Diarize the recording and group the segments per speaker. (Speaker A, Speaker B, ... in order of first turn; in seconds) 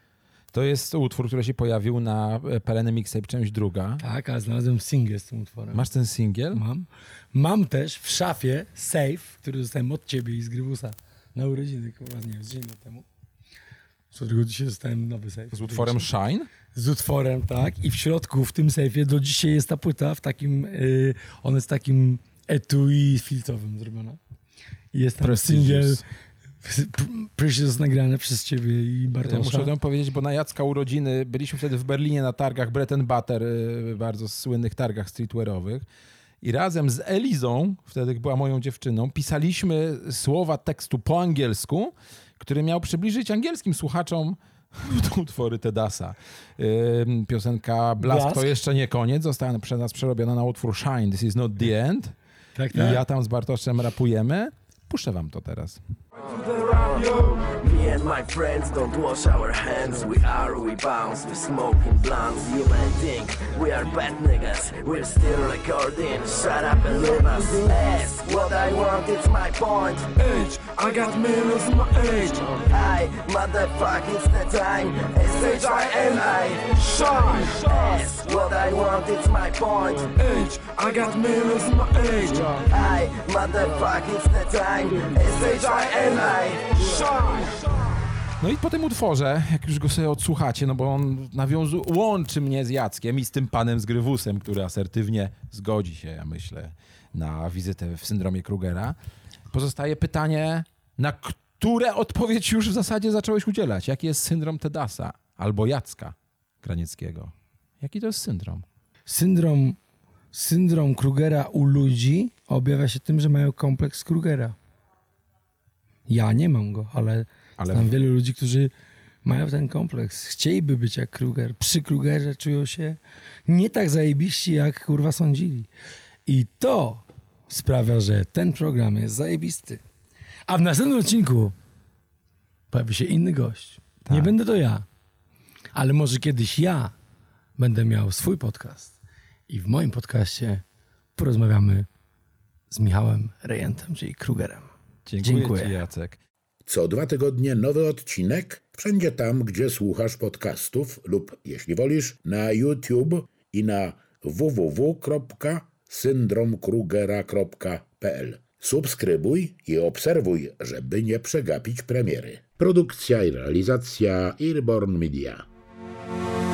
Speaker A: 0.5-4.0, 5.7-6.6, 15.5-16.5, 25.2-26.0, 29.2-35.8, 36.4-52.1, 52.7-55.8, 88.4-99.0, 99.5-108.7, 117.6-117.9, 134.1-134.3, 145.1-146.2
Speaker B: 4.0-5.8, 6.5-13.0, 14.1-16.1, 16.7-24.2, 24.9-26.0, 26.6-29.7, 48.0-48.5, 52.5-53.0, 109.1-109.8, 110.3-114.5, 116.1-118.7, 119.2-125.7, 126.2-129.8, 130.5-131.5, 132.7-134.8, 135.7-136.9, 137.6-138.9, 139.5-140.6, 141.2-141.9, 142.7-144.7, 145.2-145.7
Speaker C: 56.2-87.9
Speaker D: 146.7-165.4